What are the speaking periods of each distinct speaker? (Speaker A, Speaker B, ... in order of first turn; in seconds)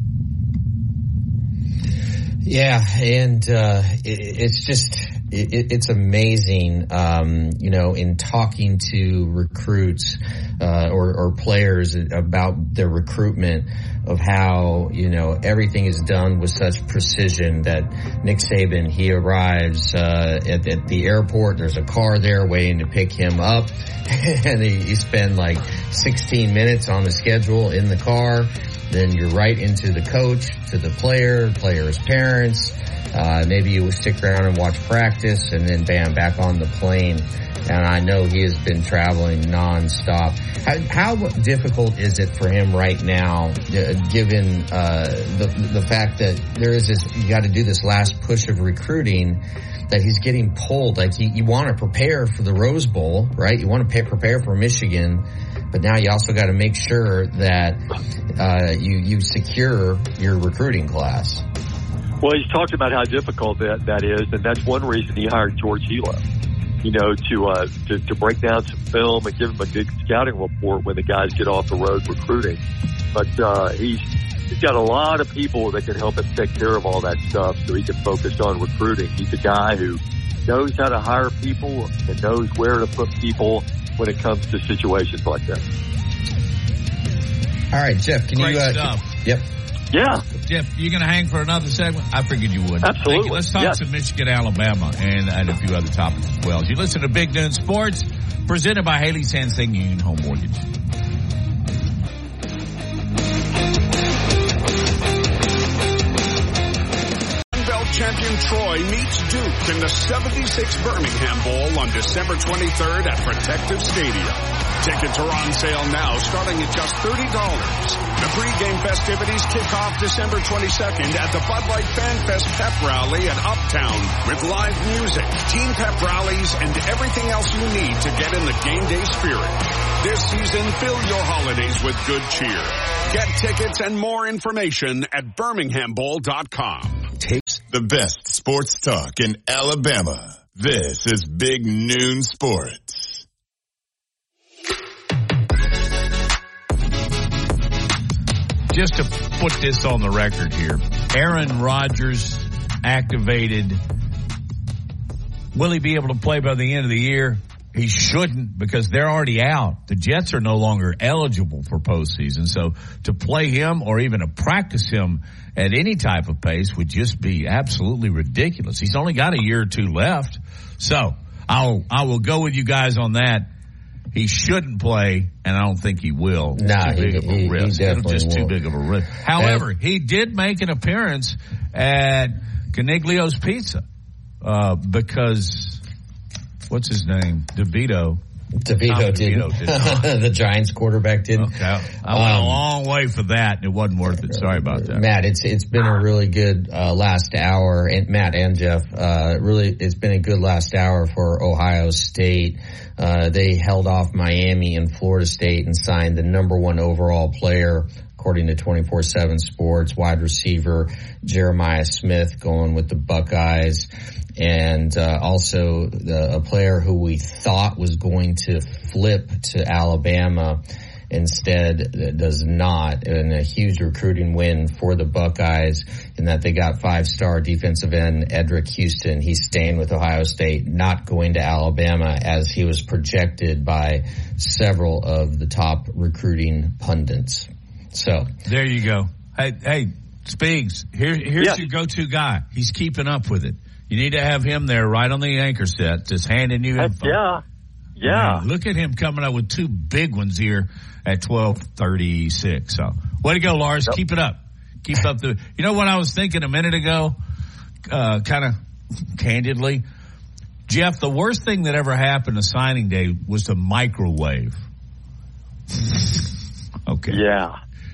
Speaker A: 2.4-57.8, 58.4-61.4, 87.7-89.5, 176.6-178.5, 179.3-179.6, 188.6-191.6, 192.1-192.6, 194.1-238.3
Speaker B: 62.2-66.2, 66.8-72.6, 73.1-85.6, 89.9-90.2, 92.8-93.8, 246.8-247.4, 248.0-248.4, 267.1-267.6
Speaker C: 88.4-89.1, 90.4-100.7, 148.7-153.8, 155.6-173.5, 174.1-183.8, 184.4-185.8, 186.7-188.2, 188.9-190.1, 191.4-195.0, 238.4-247.2, 248.1-257.1, 257.9-258.6, 259.1-259.8, 260.7-264.6, 266.9-267.2
Speaker D: 107.5-137.1
Speaker E: 137.2-143.2